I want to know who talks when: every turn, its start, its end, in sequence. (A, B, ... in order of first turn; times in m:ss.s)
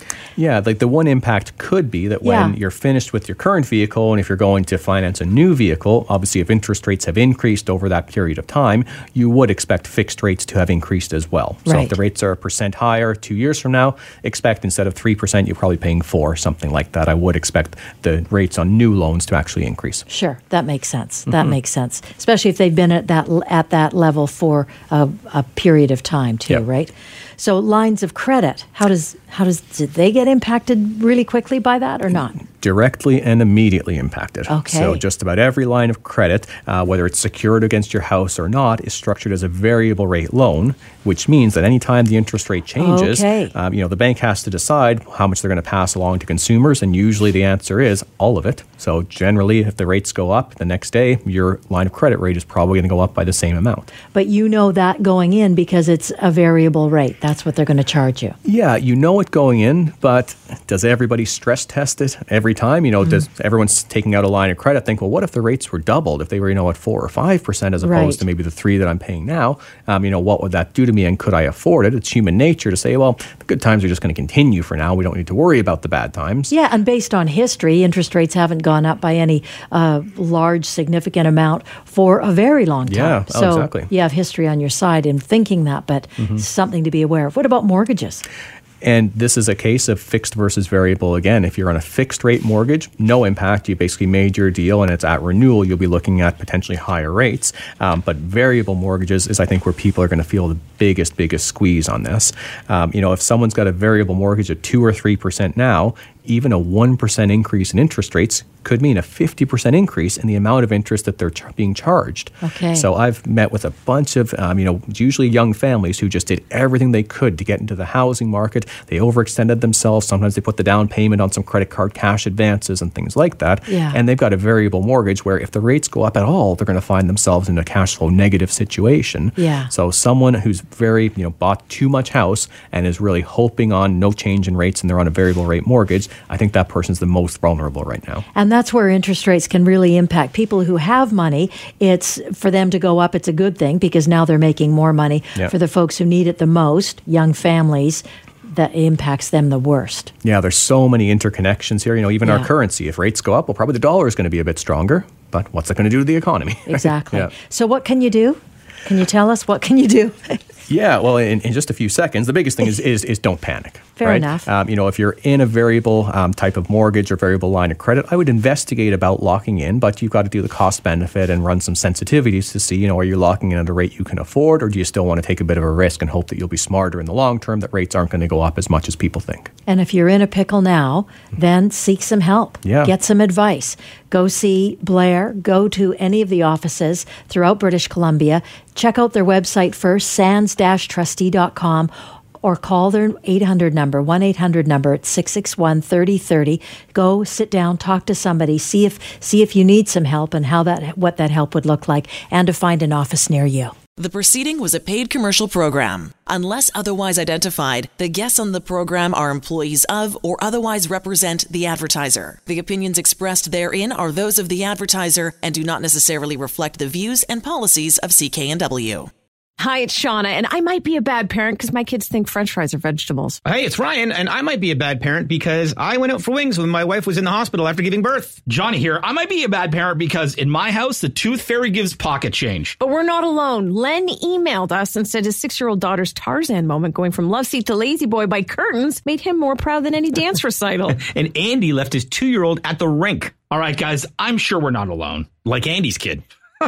0:00.4-0:20.0 A
0:02.2-0:02.5 B
0:11.6-0:11.9 B
0:20.1-0:32.4 B
0:32.3-0:53.9 A
0:34.5-0:35.0 B
0:42.8-0:43.5 B
0:54.1-0:58.4 B
0:58.4-1:16.5 A
1:07.8-1:08.2 B
1:16.5-1:28.2 B
1:22.9-1:23.9 A
1:26.2-1:26.4 A
1:28.8-2:18.2 A
1:52.4-1:52.9 B
2:03.7-2:04.0 B
2:09.4-2:09.7 B
2:18.3-2:30.1 B
2:30.2-2:37.3 A
2:36.7-2:40.4 B
2:40.7-2:59.5 A
2:44.0-2:44.5 B
2:59.7-3:23.7 B
3:02.6-3:02.9 A
3:24.0-3:39.1 C
3:39.6-3:43.4 D
3:43.5-3:48.4 E
3:48.4-3:52.8 F
3:52.8-4:01.0 D
4:00.9-4:06.2 F